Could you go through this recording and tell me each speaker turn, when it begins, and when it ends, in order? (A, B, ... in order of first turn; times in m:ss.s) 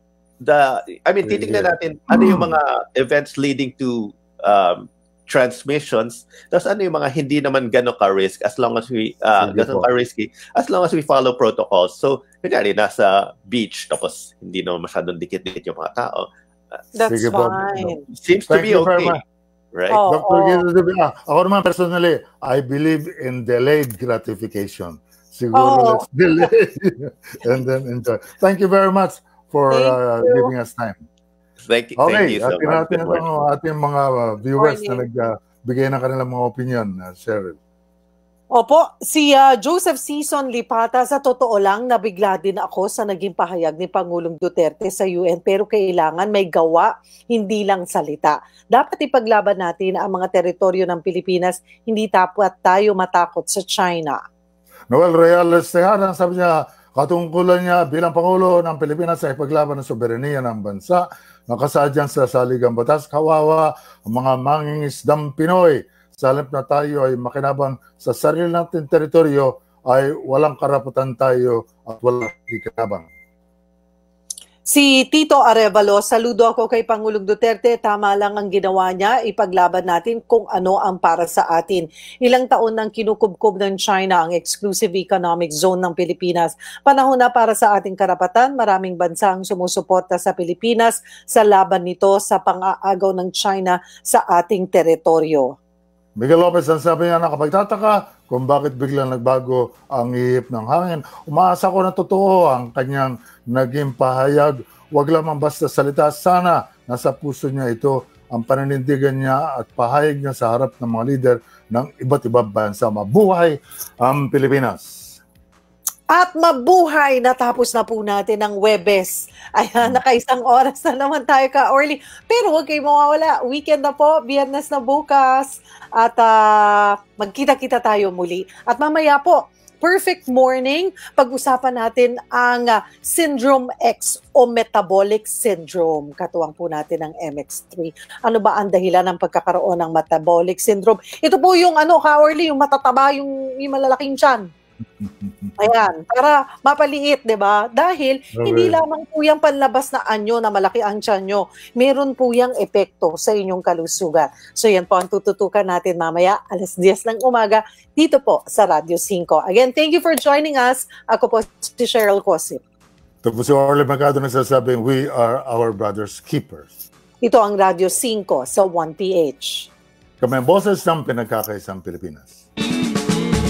0:00.4-0:16.3 A
0:01.2-0:02.6 B
0:09.4-0:09.9 B
0:16.9-0:18.0 C
0:17.1-0:18.0 B
0:18.1-0:19.2 A
0:18.5-0:19.2 B
0:19.7-0:20.0 A
0:19.9-0:20.6 C
0:20.0-0:31.0 B
0:25.5-0:26.0 C
0:29.7-0:30.5 C
0:31.7-0:33.3 A
0:32.0-0:37.6 B
0:34.6-0:35.0 C
0:38.5-0:54.2 C
0:54.9-1:13.1 B
1:14.7-1:35.5 C
1:36.2-1:55.0 B
1:56.1-2:24.5 C
2:25.0-2:25.6 B
2:25.6-2:42.6 C
2:28.3-2:28.8 B
2:43.2-2:46.8 B
2:47.2-2:49.7 C
2:50.2-2:52.4 B